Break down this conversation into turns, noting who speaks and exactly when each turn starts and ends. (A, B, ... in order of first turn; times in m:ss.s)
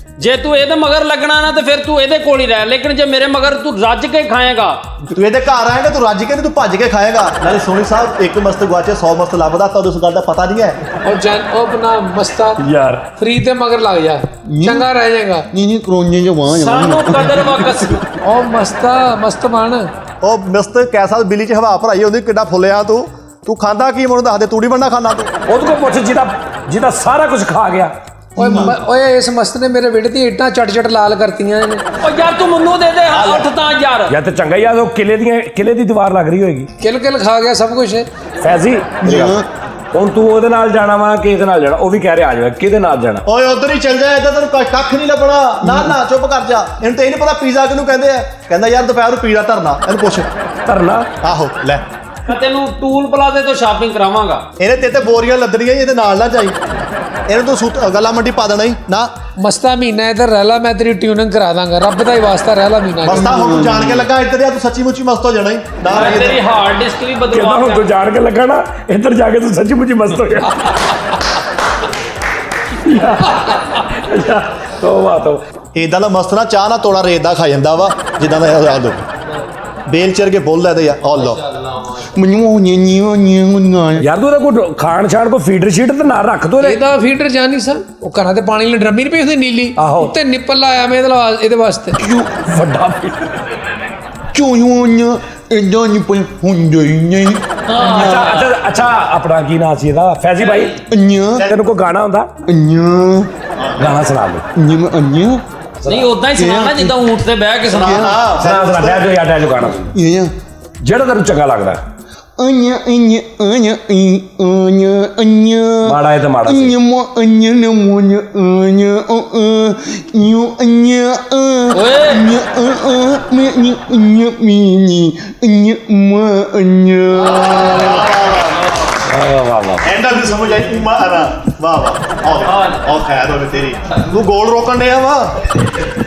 0:00.2-0:04.8 A
0:05.1-0:10.8 B
0:11.0-0:12.6 C
0:12.6-0:13.0 D
0:13.2-0:15.5 C
0:14.5-0:14.9 E
0:15.5-0:18.0 E
0:16.5-0:18.0 A
0:18.2-0:19.9 C
0:20.2-0:25.3 B
0:25.5-0:27.9 D
0:28.4-0:28.8 E
0:28.4-0:31.8 C
0:32.0-0:34.1 A
0:33.1-0:33.5 B
0:34.1-0:36.7 D
0:36.8-0:38.1 C
0:38.4-0:39.4 D
0:39.0-0:39.4 E
0:39.9-0:43.2 D
0:43.3-0:50.3 B
0:45.6-0:46.0 E
0:50.6-0:51.1 D
0:51.2-0:51.8 B
0:52.2-0:54.4 A
0:54.6-0:56.6 B
0:57.3-0:59.1 B
0:59.4-1:03.3 C
1:03.0-1:06.4 B
1:03.1-1:04.0 E
1:05.9-1:07.9 A
1:07.3-1:10.9 D
1:12.8-1:15.4 D
1:15.8-1:19.0 B
1:19.9-1:21.4 B
1:21.0-1:22.1 A
1:22.1-1:24.1 E
1:24.0-1:26.8 D
1:26.6-1:32.0 C
1:29.8-1:30.2 D
1:32.0-1:32.4 E
1:32.3-1:33.9 D
1:34.3-1:38.3 E
1:37.7-1:38.5 A
1:37.9-1:40.7 D
1:40.4-1:40.8 A
1:40.9-1:41.5 E
1:41.4-1:42.3 D
1:42.5-1:43.3 E
1:43.6-1:44.0 B
1:43.8-1:44.4 D
1:44.6-1:45.4 E
1:45.8-1:46.1 D
1:45.8-1:48.2 A
1:46.3-1:47.0 E
1:47.7-1:49.1 B
1:47.7-1:48.1 E
1:48.4-1:49.9 D
1:49.9-1:50.3 E
1:50.8-1:51.8 D
1:52.4-2:08.0 E
1:55.8-1:56.7 D
2:01.7-2:02.2 A
2:07.2-2:08.0 A
2:07.3-2:09.0 B
2:09.0-2:09.9 D
2:09.8-2:15.6 B
2:12.4-2:12.8 A